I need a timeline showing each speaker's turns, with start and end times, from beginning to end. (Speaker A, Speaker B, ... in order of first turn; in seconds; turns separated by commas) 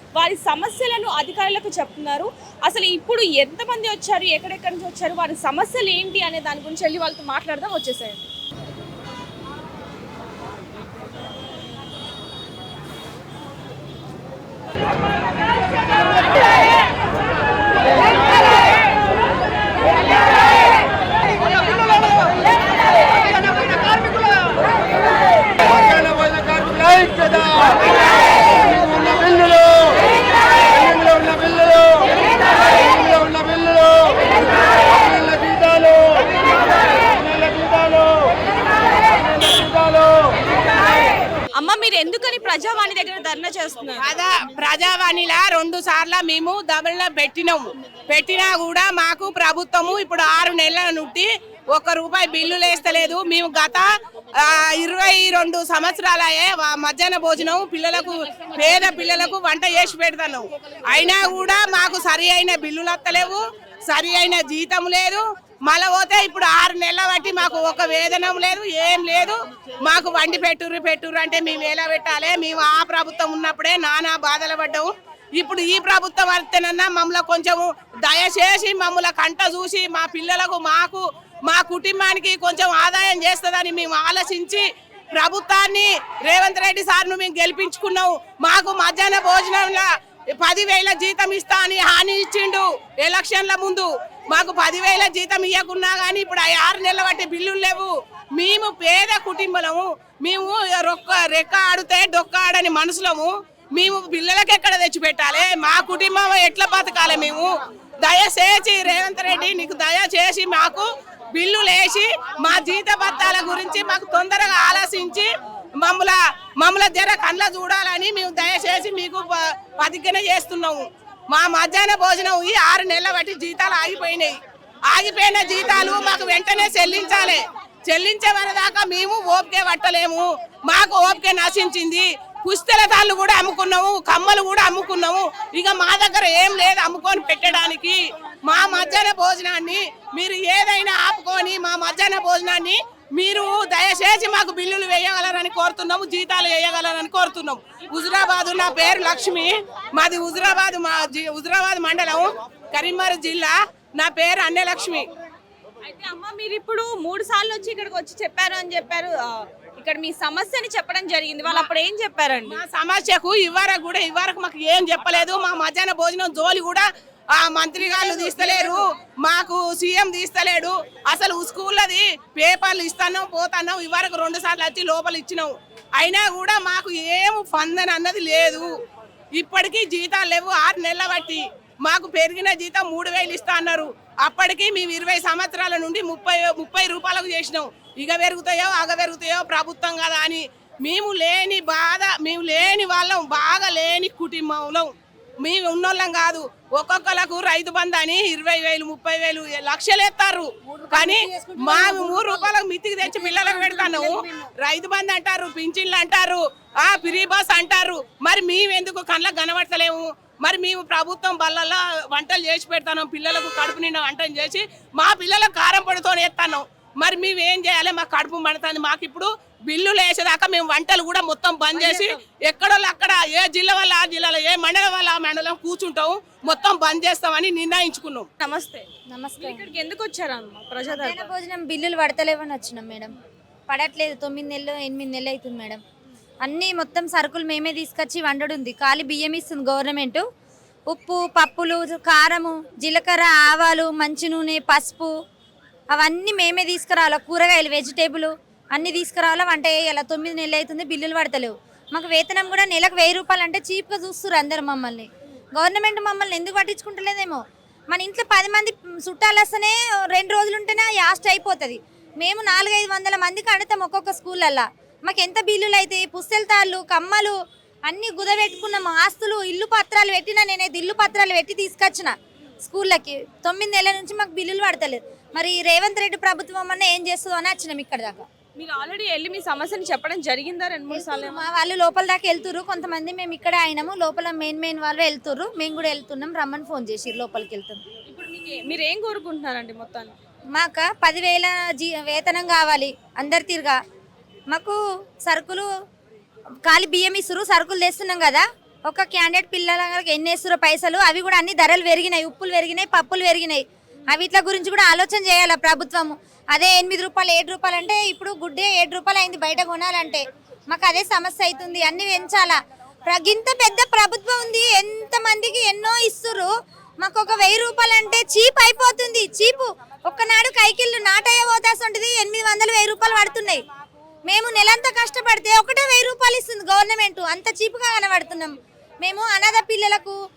Speaker A: 0.2-8.3, Speaker A: 41.6-44.1, Speaker B: 44.0-53.9, Speaker B: 54.4-84.7, Speaker B: 85.2-89.8, Speaker B: 90.4-115.3, Speaker B: 115.8-124.4, Speaker B: 124.9-155.1, Speaker A: 155.8-162.6, Speaker B: 162.5-166.9, Speaker B: 167.4-178.7, Speaker A: 167.8-168.8, Speaker B: 179.4-204.1, Speaker C: 200.7-202.5, Speaker C: 203.1-204.2, Speaker A: 203.7-204.0, Speaker B: 204.6-228.3, Speaker A: 221.8-222.2, Speaker A: 228.4-228.9, Speaker C: 229.1-229.6, Speaker A: 229.4-231.3, Speaker C: 230.9-233.1, Speaker C: 233.7-235.8, Speaker C: 236.4-240.2, Speaker C: 240.9-245.1, Speaker C: 245.9-267.4, Speaker C: 267.9-278.3, Speaker A: 278.6-281.5, Speaker C: 280.9-287.8, Speaker A: 288.1-290.1, Speaker C: 290.6-293.8, Speaker C: 294.5-295.7, Speaker C: 296.7-316.5, Speaker C: 317.0-323.6, Speaker C: 324.3-330.2